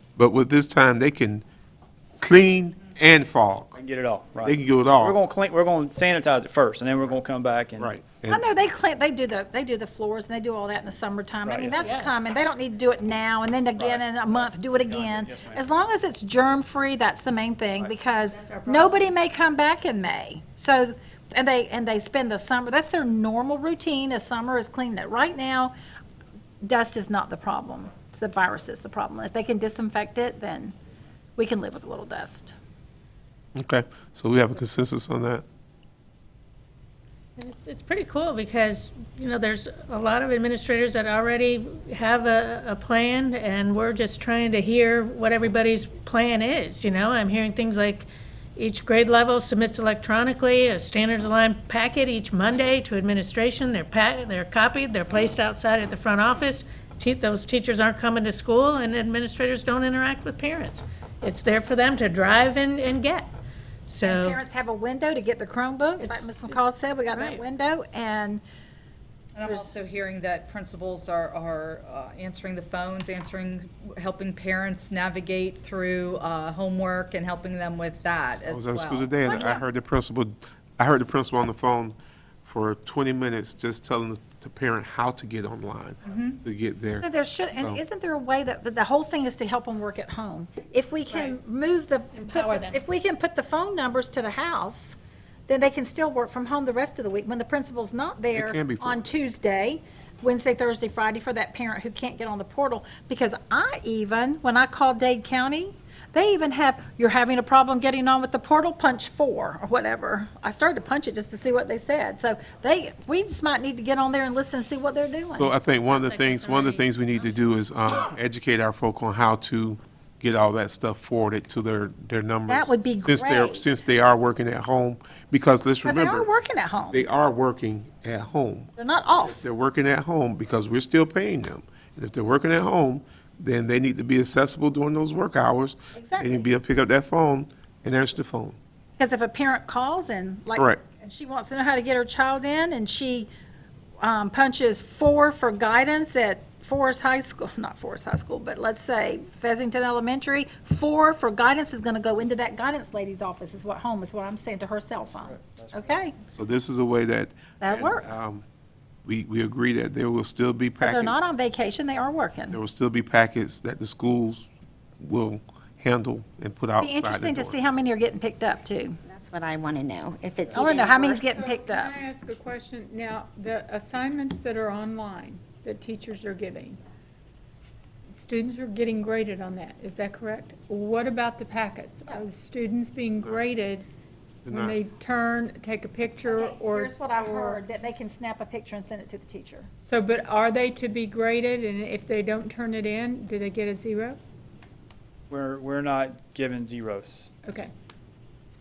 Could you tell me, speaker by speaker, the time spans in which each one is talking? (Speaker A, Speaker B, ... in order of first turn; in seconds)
Speaker A: 0.2-1.4, 2.2-3.8, 4.4-5.2, 7.8-8.4, 33.5-35.4, 78.5-87.8, 98.3-99.0, 115.3-126.3, 126.9-138.6, 140.5-140.8, 156.3-158.4, 159.0-161.2, 162.5-164.5, 165.0-167.6, 184.4-184.8
Speaker B: 3.7-7.9, 11.4-11.9, 13.8-15.7, 155.2-156.3, 170.4-170.8, 195.3-197.3
Speaker C: 8.3-25.7, 26.6-30.7, 31.4-32.5, 64.0-68.4, 69.4-69.7, 79.2-79.6, 87.0-95.0, 95.5-115.5, 122.5-123.7, 125.8-127.0, 128.8-129.4, 135.9-136.5, 139.0-143.3, 144.0-156.1, 157.6-158.1, 160.8-162.6, 166.8-169.0, 170.5-171.9, 186.2-189.7
Speaker D: 11.8-12.2, 18.2-19.1, 37.4-63.3, 63.9-64.4, 66.0-66.4, 67.1-67.4, 92.1-92.8, 115.6-117.5
Speaker E: 69.3-79.5, 86.0-86.4
Speaker F: 169.1-171.2
Speaker G: 170.8-176.8, 178.1-183.8, 184.5-187.6, 189.8-194.2, 197.4-197.7